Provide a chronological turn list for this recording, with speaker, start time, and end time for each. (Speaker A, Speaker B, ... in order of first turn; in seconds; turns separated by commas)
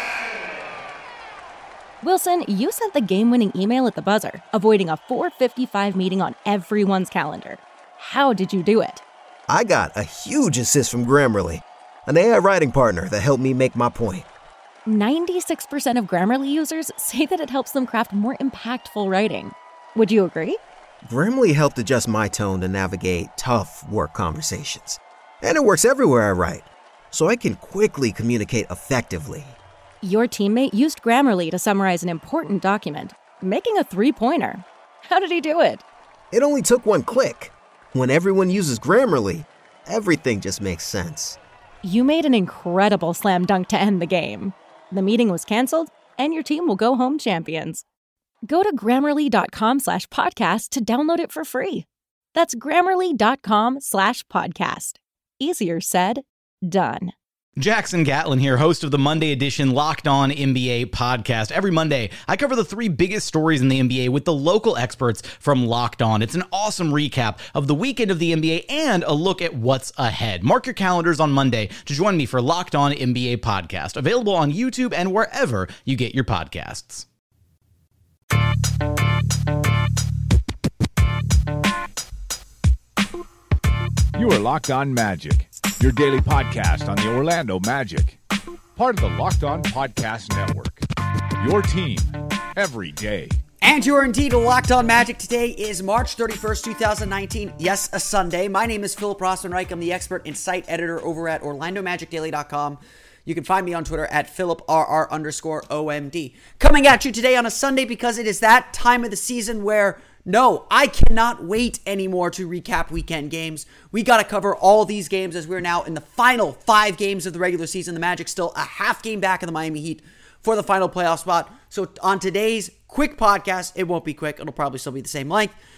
Speaker A: 2.0-9.0, Speaker B: 9.5-14.3, Speaker A: 14.8-20.6, Speaker B: 21.0-29.6, Speaker A: 30.0-35.8, Speaker B: 36.3-41.4, Speaker A: 41.8-47.8, Speaker A: 48.5-57.1, Speaker C: 57.6-77.1, Speaker D: 84.1-88.2, Speaker D: 88.8-90.8, Speaker D: 91.4-93.4, Speaker E: 93.6-125.5